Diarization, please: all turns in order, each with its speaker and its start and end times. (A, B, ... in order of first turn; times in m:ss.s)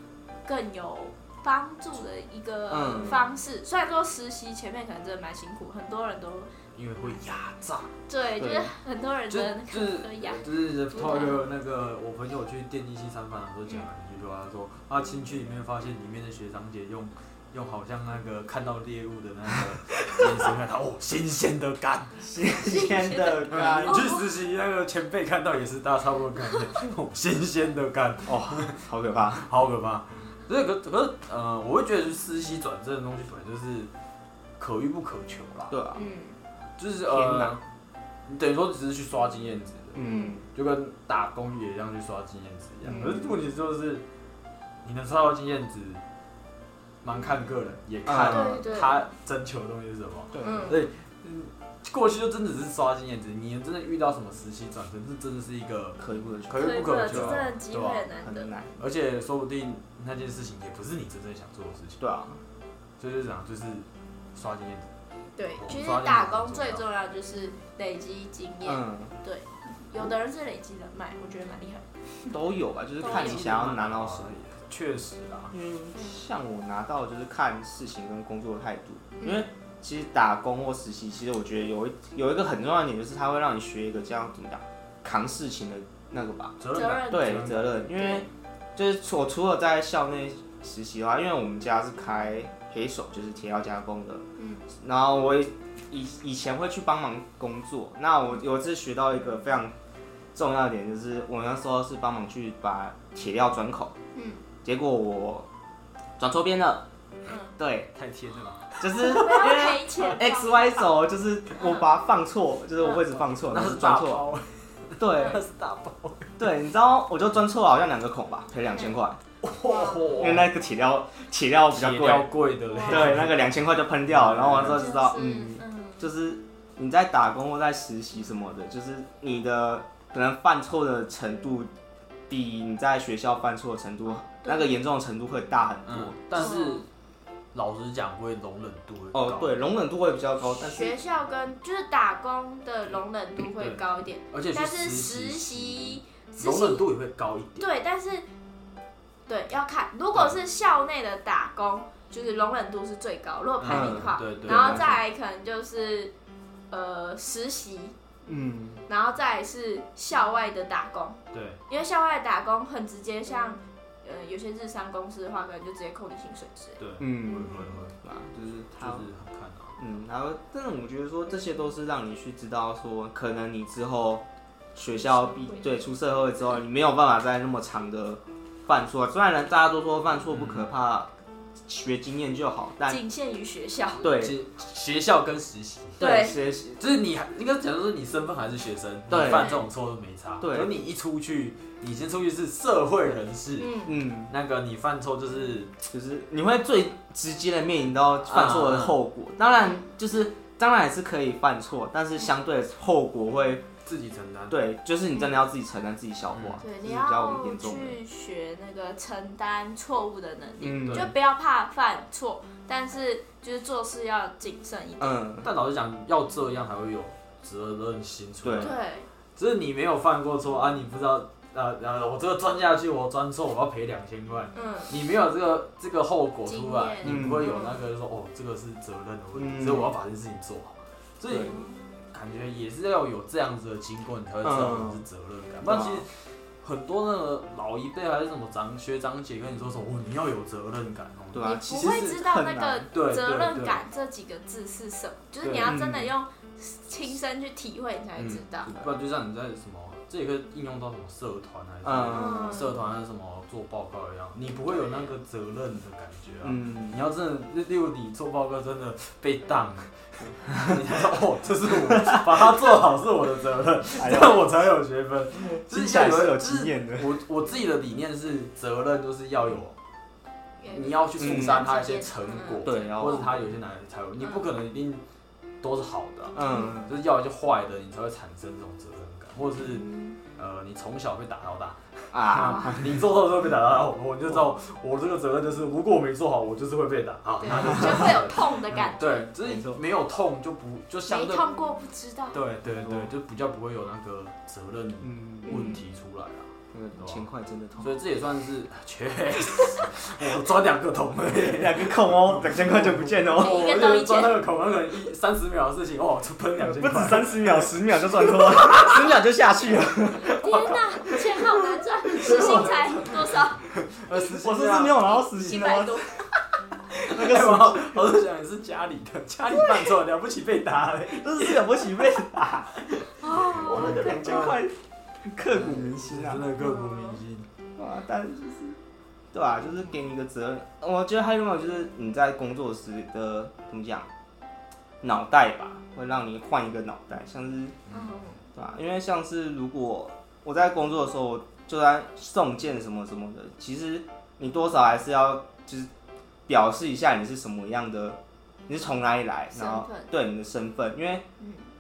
0:00.4-0:06.5 A
0:02.7-0:03.2 B
0:06.7-0:07.9 C
0:08.1-0:11.4 A
0:08.4-0:08.7 B
0:09.3-0:22.3 C
0:22.2-0:24.0 B
0:22.6-0:24.2 A
0:23.5-0:33.9 C
0:28.2-0:29.5 B
0:34.6-0:35.8 C
0:35.7-0:36.1 B
0:36.0-0:36.4 A
0:36.8-0:37.6 C
0:37.1-0:37.6 B
0:38.3-0:44.0 C
0:40.0-0:40.4 B
0:40.0-0:40.4 A
0:42.9-0:43.3 A
0:44.8-0:46.0 C
0:47.0-0:58.1 C
0:48.1-0:48.6 B
0:48.2-0:49.0 A
0:50.3-0:50.8 B
0:50.4-0:50.8 A
0:56.0-0:57.5 B
0:56.6-0:58.5 A
0:58.2-0:58.8 B
0:58.8-1:02.0 C
1:02.0-1:02.4 B
1:03.0-1:04.9 C
1:05.4-1:12.4 A
1:05.6-1:06.8 C
1:08.6-1:09.1 B
1:12.3-1:14.4 B
1:13.0-1:13.4 A
1:13.0-1:15.5 C
1:15.5-1:34.2 B
1:19.2-1:19.5 A
1:26.6-1:27.8 C
1:26.7-1:28.3 A
1:34.4-1:34.6 A
1:34.8-1:39.7 B
1:40.4-1:44.0 B
1:44.1-1:44.4 A
1:44.6-1:45.5 B
1:46.2-1:46.9 B
1:47.3-1:47.5 A
1:47.6-1:47.9 B
1:47.9-1:49.4 C
1:48.8-1:54.2 B
1:49.0-1:50.8 A
1:51.6-1:51.8 A
1:53.3-1:56.4 C
1:55.0-1:55.4 B
1:56.4-1:59.2 B
1:59.4-2:00.5 C
1:59.6-2:00.2 A
2:00.1-2:02.3 B
2:01.7-2:03.6 C
2:02.7-2:03.1 A
2:02.8-2:11.7 B
2:04.1-2:04.9 C
2:04.6-2:06.1 A
2:12.3-2:16.5 B
2:14.4-2:14.8 A
2:15.9-2:16.9 C
2:16.4-2:16.8 A
2:17.5-2:19.6 C
2:19.1-2:21.0 B
2:20.6-2:26.8 A
2:23.4-2:27.7 C
2:27.6-2:28.2 A
2:29.3-2:36.1 A
2:33.6-2:35.0 C
2:33.6-2:35.0 B
2:36.7-2:38.0 A
2:38.2-2:38.8 B
2:38.9-2:46.8 A
2:41.3-2:41.6 C
2:46.8-2:47.9 C
2:47.0-2:49.1 B
2:48.7-2:49.8 C
2:49.8-3:01.1 B
2:55.3-2:55.8 A
3:00.3-3:00.7 C
3:01.6-3:03.0 B
3:02.9-3:04.1 A
3:04.0-3:04.4 B
3:04.0-3:06.2 C
3:06.0-3:06.4 A
3:06.0-3:06.8 B
3:06.8-3:15.7 C
3:09.1-3:09.5 B
3:09.3-3:09.6 A
3:10.4-3:10.7 B
3:13.6-3:14.0 A
3:13.8-3:14.3 B
3:15.9-3:23.6 B
3:18.3-3:19.0 C
3:23.8-3:24.6 C
3:24.5-3:28.0 B
3:26.3-3:26.6 C
3:26.6-3:35.2 A
3:30.6-3:31.1 B
3:30.8-3:31.1 C
3:35.0-3:35.5 B
3:35.4-3:38.8 C
3:38.4-3:38.7 B
3:38.6-3:39.1 A
3:39.4-3:51.6 C
3:44.5-3:44.9 A
3:46.4-3:47.8 A
3:47.0-3:47.5 B
3:49.4-3:49.9 B
3:51.4-3:51.8 A
3:52.1-4:02.2 C
3:54.4-3:55.0 B
3:55.6-3:56.0 B
4:01.3-4:02.9 B
4:01.4-4:08.7 A
4:02.9-4:03.8 C
4:05.4-4:05.8 C
4:05.6-4:06.1 B
4:08.2-4:29.8 C
4:11.8-4:12.6 B
4:12.1-4:12.8 A
4:14.8-4:15.1 A
4:16.4-4:17.0 B
4:21.9-4:22.5 B
4:24.0-4:24.5 B
4:25.4-4:27.2 B
4:30.6-4:33.3 A
4:30.7-4:35.0 C
4:31.2-4:31.6 B
4:32.6-4:33.4 B
4:34.2-4:34.4 A
4:35.6-4:51.5 C
4:36.4-4:37.0 B
4:36.4-4:36.7 A
4:39.6-4:40.2 A
4:42.1-4:43.0 B
4:47.4-4:49.3 A
4:47.7-4:48.1 B
4:49.4-4:49.8 B
4:51.1-4:52.4 A
4:52.3-4:57.3 C
4:52.6-4:53.1 B
4:55.0-4:55.8 B
4:55.4-4:55.8 A
4:56.7-4:57.9 B
4:57.8-5:07.8 C
5:01.4-5:03.8 B
5:03.4-5:04.4 A
5:06.6-5:11.2 B
5:10.2-5:13.6 A
5:12.2-5:15.2 C
5:12.2-5:12.8 B
5:14.2-5:16.0 B
5:15.1-5:16.3 A
5:17.0-5:22.1 C
5:17.0-5:18.1 B
5:21.2-5:26.5 B
5:23.2-5:24.5 A
5:23.3-5:24.6 C
5:25.5-5:27.5 C
5:26.6-5:27.2 A
5:27.8-5:28.8 B
5:29.3-5:34.1 B
5:35.0-5:37.8 B
5:37.9-5:38.5 A
5:38.6-5:45.9 B
5:46.5-5:51.2 B
5:49.5-5:50.1 A
5:51.4-5:51.7 A